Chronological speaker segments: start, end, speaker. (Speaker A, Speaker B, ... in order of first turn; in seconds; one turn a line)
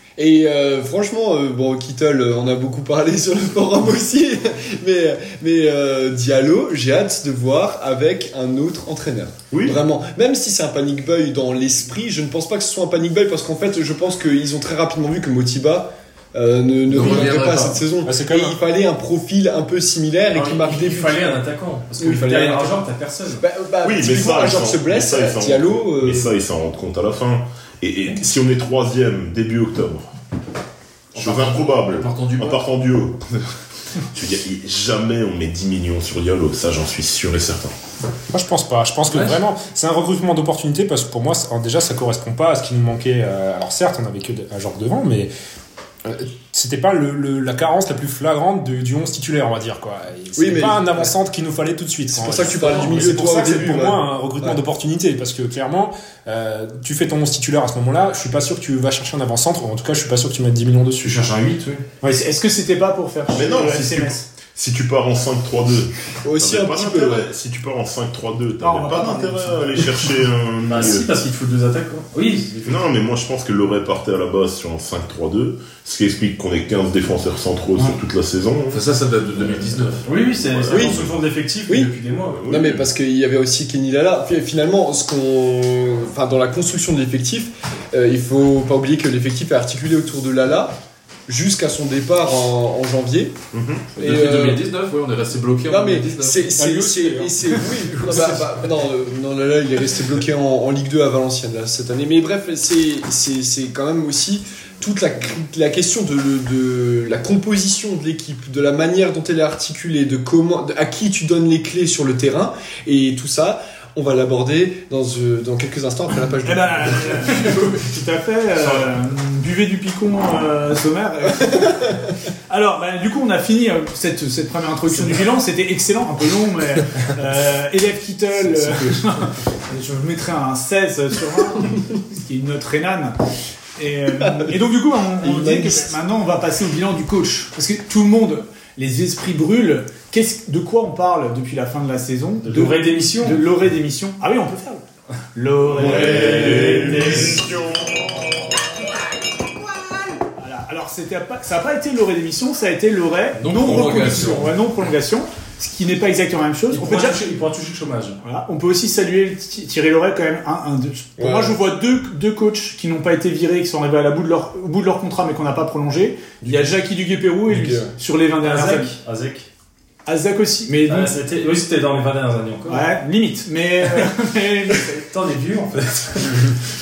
Speaker A: 0.2-21.4
Speaker B: 9.5-9.8
Speaker C: 16.9-17.8
Speaker D: 18.0-18.6
Speaker E: 20.3-23.4
Speaker A: 22.0-22.9
Speaker A: 23.4-26.4
Speaker B: 23.8-30.1
Speaker C: 31.1-32.6
Speaker B: 31.2-33.2
Speaker B: 34.1-37.7
Speaker D: 38.3-45.3
Speaker E: 39.1-39.4
Speaker D: 46.1-61.2
Speaker A: 50.4-51.1
Speaker A: 52.1-54.6
Speaker E: 61.0-61.9
Speaker F: 62.0-64.3
Speaker B: 63.3-71.1
Speaker A: 66.2-67.3
Speaker F: 68.6-70.1
Speaker E: 70.7-72.9
Speaker B: 72.6-81.2
Speaker C: 78.7-80.1
Speaker E: 80.0-82.4
Speaker A: 80.7-81.0
Speaker A: 81.7-81.9
Speaker B: 82.4-82.9
Speaker A: 82.5-90.8
Speaker A: 91.3-93.4
Speaker B: 93.5-93.9
Speaker C: 94.0-96.4
Speaker A: 94.0-94.6
Speaker A: 95.7-117.5
Speaker D: 96.6-98.6
Speaker F: 116.4-121.9
Speaker E: 117.3-117.8
Speaker E: 118.6-118.9
Speaker F: 122.5-133.2
Speaker F: 133.8-144.8
Speaker A: 134.2-134.6
Speaker A: 135.2-135.9
Speaker E: 142.4-143.4
Speaker F: 145.3-147.5
Speaker B: 145.7-148.1
Speaker E: 146.0-146.3
Speaker F: 150.4-157.2
Speaker C: 153.4-154.6
Speaker E: 156.7-158.2
Speaker F: 158.2-168.9
Speaker A: 161.2-161.6
Speaker A: 167.5-167.9
Speaker E: 168.4-169.5
Speaker F: 170.1-171.2
Speaker E: 170.9-172.9
Speaker F: 172.7-175.0
Speaker E: 174.9-176.5